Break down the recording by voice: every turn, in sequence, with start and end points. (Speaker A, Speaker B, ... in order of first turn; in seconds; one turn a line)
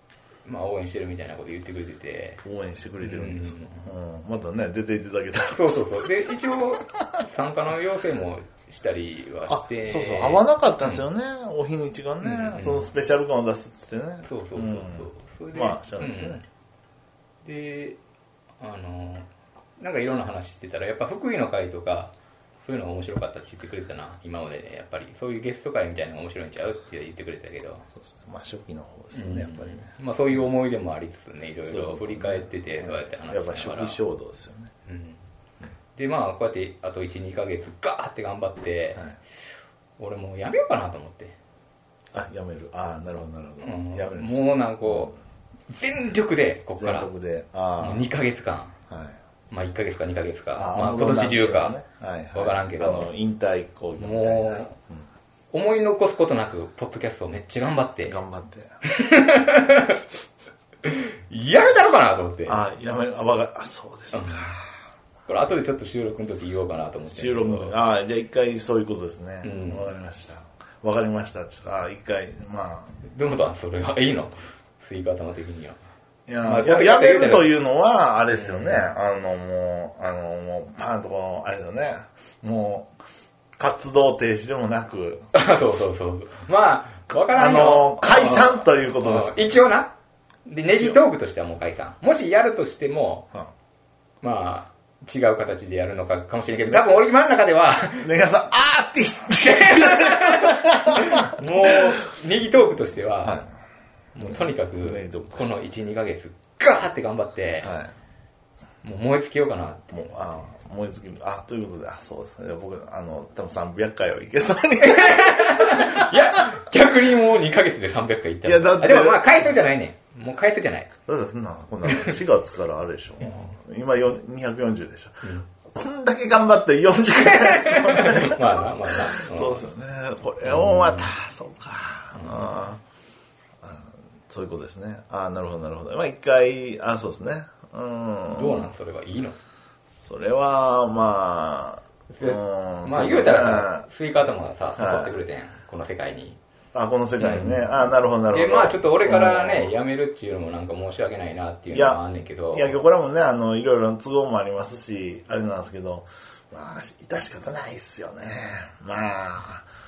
Speaker A: 0.5-2.4
Speaker B: 2.4-6.1
Speaker A: 3.0-3.9
Speaker A: 5.5-11.0
Speaker B: 9.5-16.4
Speaker A: 12.2-12.9
Speaker A: 14.2-16.4
Speaker A: 17.4-18.0
Speaker A: 18.6-19.3
Speaker A: 19.8-27.9
Speaker B: 27.9-29.9
Speaker A: 29.1-34.0
Speaker B: 31.7-34.7
Speaker A: 34.9-35.2
Speaker A: 36.0-39.1
Speaker A: 40.0-41.4
Speaker B: 42.1-45.1
Speaker A: 43.6-45.1
Speaker A: 45.7-47.1
Speaker B: 46.8-48.1
Speaker A: 47.8-48.8
Speaker B: 48.9-49.2
Speaker A: 49.5-51.8
Speaker B: 50.6-55.0
Speaker A: 52.3-53.1
Speaker A: 54.0-54.8
Speaker A: 55.5-58.2
Speaker B: 58.1-58.7
Speaker A: 58.9-60.0
Speaker A: 60.8-62.6
Speaker B: 62.5-64.7
Speaker A: 64.1-64.5
Speaker A: 65.3-67.8
Speaker B: 67.1-73.0
Speaker A: 69.4-69.9
Speaker A: 73.0-75.8
Speaker B: 76.3-82.9
Speaker A: 76.4-77.6
Speaker A: 78.3-78.9
Speaker B: 83.6-85.3
Speaker A: 85.3-89.9
Speaker B: 87.2-89.5
Speaker A: 90.5-93.3
Speaker A: 94.2-98.1
Speaker B: 98.0-101.8
Speaker A: 99.4-103.4
Speaker A: 104.2-107.7
Speaker B: 104.3-105.5
Speaker B: 107.6-107.9
Speaker A: 108.8-110.2
Speaker B: 109.9-116.6
Speaker A: 114.9-120.9
Speaker B: 118.4-119.5
Speaker B: 121.1-132.8
Speaker A: 121.9-122.1
Speaker A: 123.2-123.5
Speaker A: 125.2-125.5
Speaker A: 127.3-129.7
Speaker A: 130.4-131.1
Speaker A: 132.2-132.5
Speaker B: 133.6-138.7
Speaker A: 138.3-139.4
Speaker B: 140.0-143.8
Speaker A: 142.1-146.4
Speaker B: 144.8-145.1
Speaker B: 146.7-149.7
Speaker A: 147.2-147.7
Speaker A: 148.3-152.9
Speaker B: 151.7-159.7